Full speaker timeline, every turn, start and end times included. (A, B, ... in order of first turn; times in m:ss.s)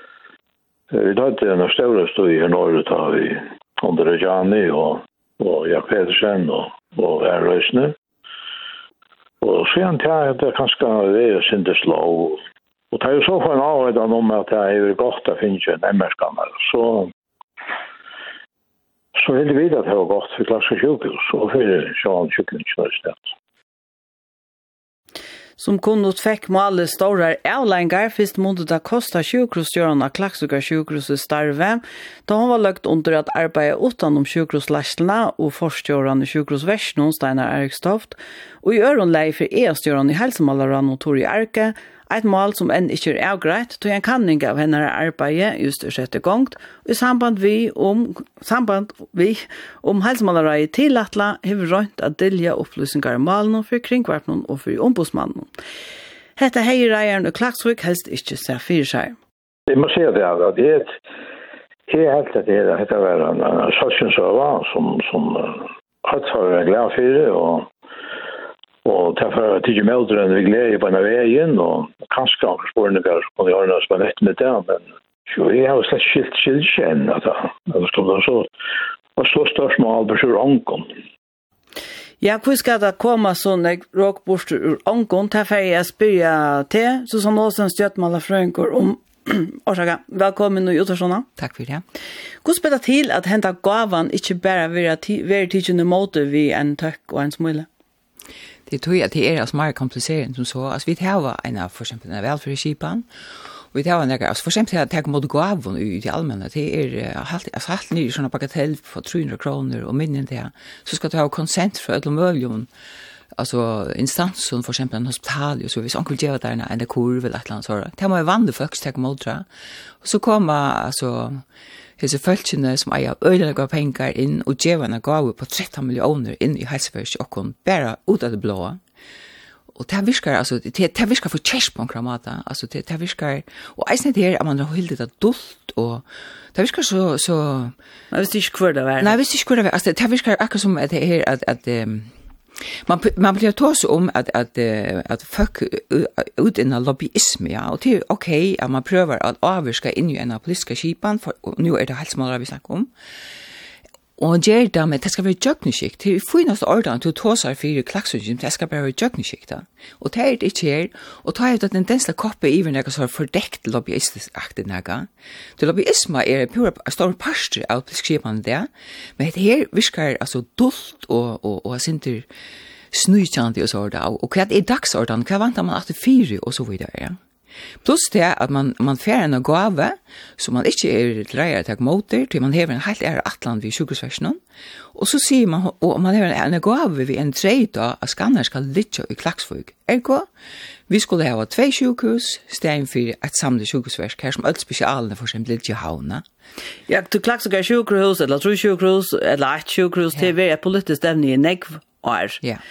0:00.9-0:08.0 A
0:09.4-0:17.1 A
0:19.2-0:23.3 A
0:25.6-0:55.5 B
0:56.4-0:59.2 B
0:59.7-1:01.0 A
1:01.9-1:07.7 A
1:08.8-1:18.5 A
1:19.2-1:20.9 A
1:22.2-1:31.3 B
1:31.4-1:31.8 C
1:32.4-1:37.7 B
1:38.7-1:43.1 C
1:43.7-1:52.7 C
1:53.4-1:59.5 C
2:00.0-2:01.4 C
2:02.0-2:08.8 C
2:09.8-2:17.8 C
2:18.1-2:19.2 B
2:19.0-2:22.1 C
2:22.8-2:32.9 C
2:34.2-2:52.3 C
2:52.9-2:57.2 C
2:57.8-3:04.4 C
3:05.0-3:10.3 C
3:10.9-3:16.2 C
3:16.9-3:22.4 B